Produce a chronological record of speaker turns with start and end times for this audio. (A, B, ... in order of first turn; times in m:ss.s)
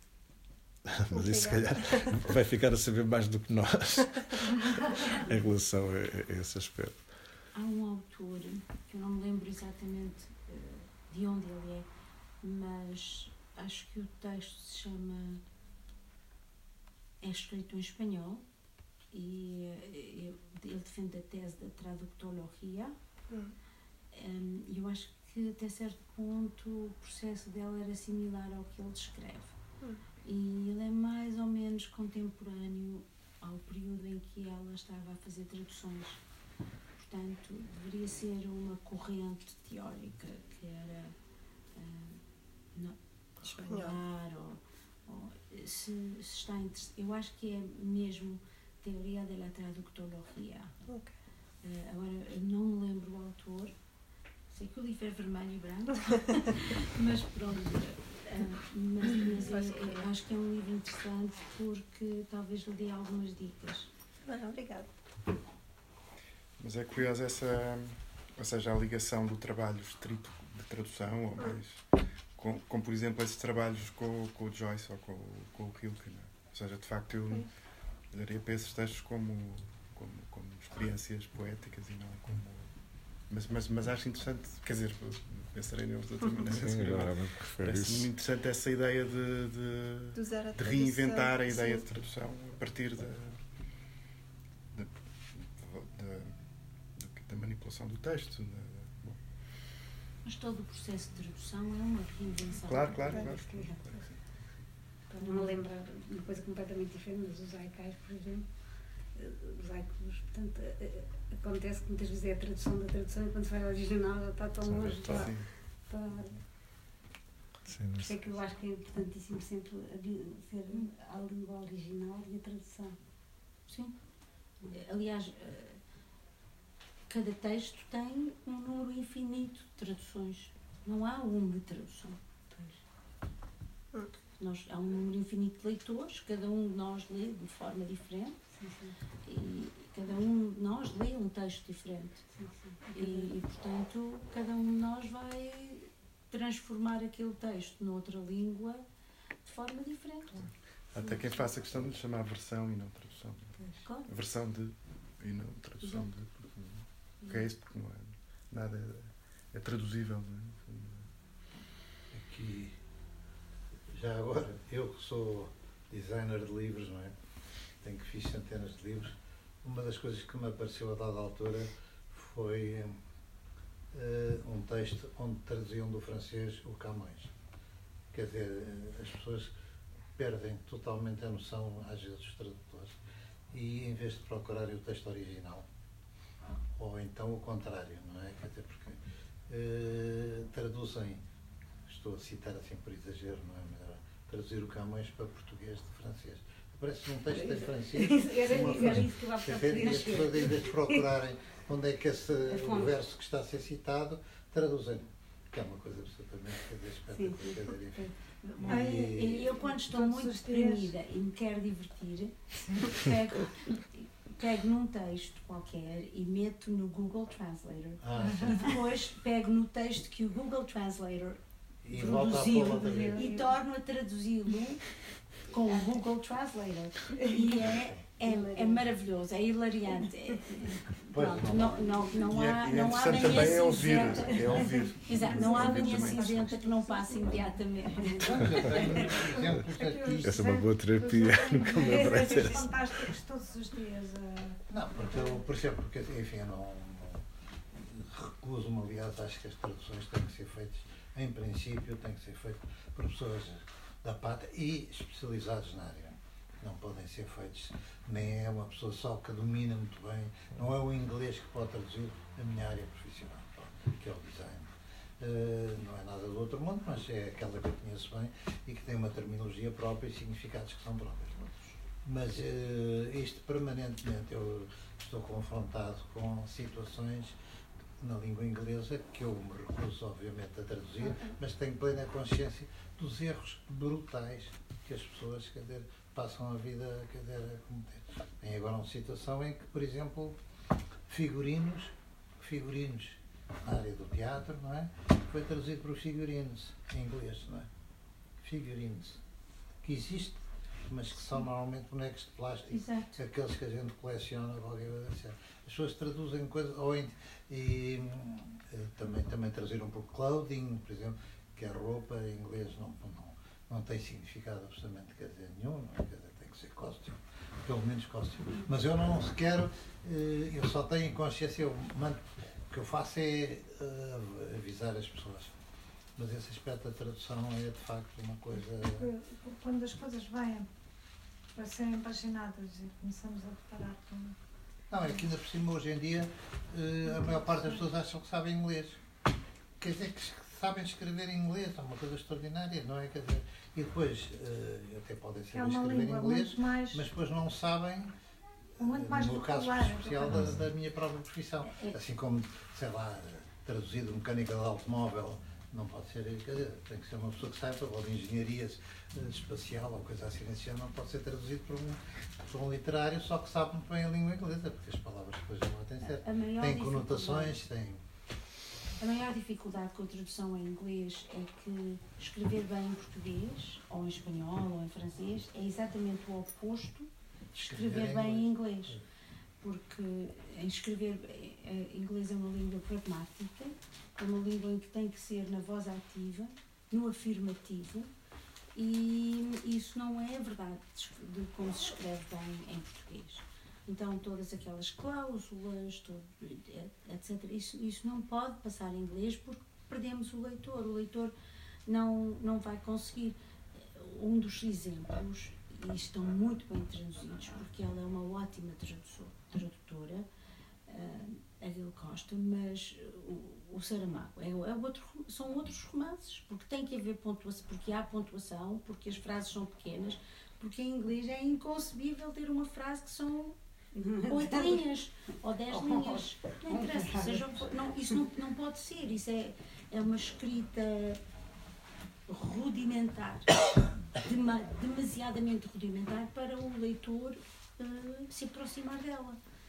0:00.8-0:07.0 A
0:01.1-0:02.2 B
0:07.5-0:11.9 C
0:12.4-0:15.4 C
0:17.2-0:18.4 C
0:19.1-0:22.9 C
0:24.1-0:29.5 C
0:30.2-0:36.2 C
0:37.0-0:41.1 C
0:41.7-0:42.2 C
0:42.7-0:50.7 C
0:43.5-0:44.0 B
0:51.6-0:53.7 C
0:54.5-1:03.9 C
0:59.4-1:00.1 B
1:04.2-1:04.9 B
1:06.6-1:11.8 D
1:12.4-1:17.5 D
1:18.1-1:22.7 D
1:23.3-1:33.4 D
1:26.5-1:28.1 A
1:30.1-1:31.8 B
1:34.7-1:36.3 D
1:37.0-1:39.2 D
1:40.2-1:43.7 C
1:42.6-1:44.1 D
1:43.1-1:44.0 E
1:45.1-1:48.4 E
1:45.2-1:45.6 C
1:49.1-1:56.3 E
1:54.6-1:55.3 A
1:54.9-1:55.5 D
1:57.7-1:58.2 A
1:58.0-2:03.0 E
2:03.7-2:03.9 C
2:04.7-2:05.8 C
2:07.1-2:12.2 C
2:14.4-2:18.4 C
2:18.5-2:19.0 E
2:19.2-2:22.3 C
2:22.3-2:23.3 E
2:22.8-2:28.8 C
2:29.4-2:30.4 C
2:30.9-2:41.1 D
2:31.0-2:31.3 C
2:33.8-2:34.1 C
2:35.8-2:36.1 C
2:42.1-2:42.8 F
2:43.9-2:47.1 F
2:47.8-2:53.0 F
2:53.9-2:57.3 F
2:58.1-2:59.5 F
3:00.2-3:03.0 F
3:03.5-3:05.6 F
3:06.8-3:11.2 F
3:11.8-3:28.1 F
3:17.3-3:21.1 E
3:19.8-3:20.5 C
3:22.5-3:22.9 E
3:27.1-3:28.1 E
3:28.4-3:41.4 C
3:28.6-3:29.6 F
3:28.7-3:30.9 G
3:32.6-3:32.9 G
3:38.0-3:38.8 F
3:38.2-3:38.7 G
3:41.8-3:43.4 F
3:41.9-3:44.8 C
3:42.2-3:43.4 G
3:45.5-3:59.0 C
3:45.6-3:46.0 E
3:47.1-3:47.8 E
3:47.7-3:48.0 F
3:48.2-3:48.9 B
3:49.9-3:50.3 E
3:51.1-3:52.0 F
3:52.2-3:56.5 D
3:55.2-3:58.3 E
3:58.2-4:00.4 F
3:59.1-4:05.4 G
4:00.2-4:02.7 A
4:04.7-4:37.4 F
4:38.0-4:50.4 F
4:51.1-4:57.7 F
4:58.4-4:59.2 F
4:59.8-5:25.6 F
5:02.7-5:03.2 C
5:26.2-5:29.1 F
5:28.9-5:30.7 G
5:31.6-5:34.4 G
5:34.9-5:39.0 F
5:39.8-5:48.1 F
5:45.5-5:47.0 G
5:48.8-6:08.0 F
5:48.8-5:50.3 G
5:51.6-5:52.0 C
6:06.2-6:07.6 C
6:09.0-6:19.0 C
6:17.5-6:19.0 F
6:19.6-6:28.1 C
6:28.7-6:41.3 C
6:41.8-6:50.2 C
6:50.9-7:03.6 C
7:03.9-7:04.8 E
7:04.2-7:11.2 C
7:05.7-7:08.3 E
7:12.3-7:19.4 C